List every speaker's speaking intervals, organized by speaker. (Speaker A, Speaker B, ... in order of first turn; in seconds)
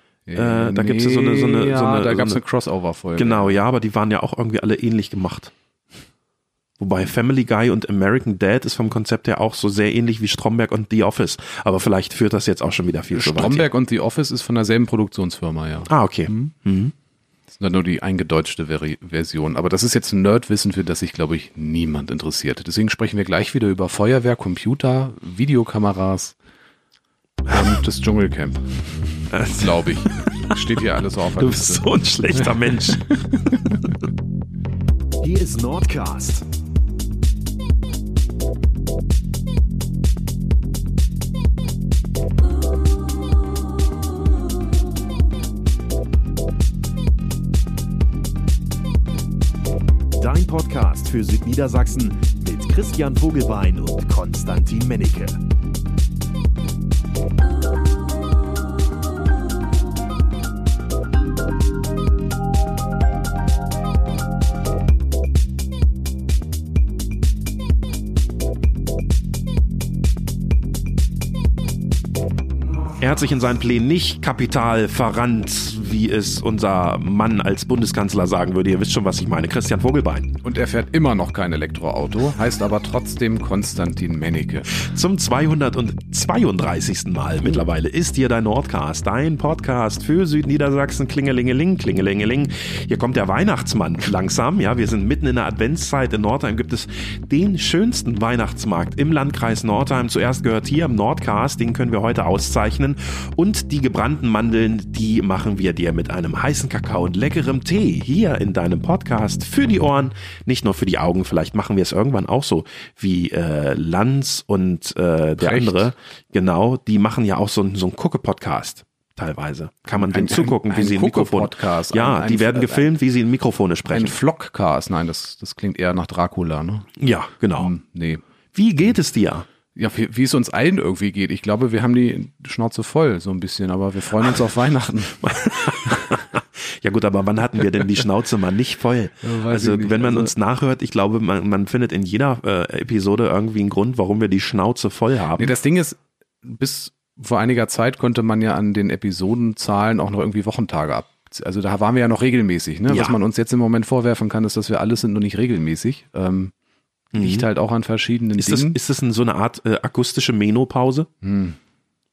Speaker A: 0.3-3.6, 13.1-16.5, 17.5-26.4, 27.5-33.8, 80.4-84.7, 115.4-115.9, 119.9-122.9, 123.9-127.0, 127.6-128.2, 129.8-136.2, 139.2-140.3, 145.4-156.5, 157.1-158.8, 161.2-161.6
Speaker B: 0.3-2.4, 3.2-5.5, 6.8-13.7, 15.9-16.9, 29.3-30.6, 31.4-33.2, 73.0-80.3, 84.7-124.1, 127.0-127.7, 128.5-129.5, 135.2-145.5, 152.9-153.2, 157.1-157.5, 158.4-161.1
Speaker C: 35.2-36.4, 50.2-55.4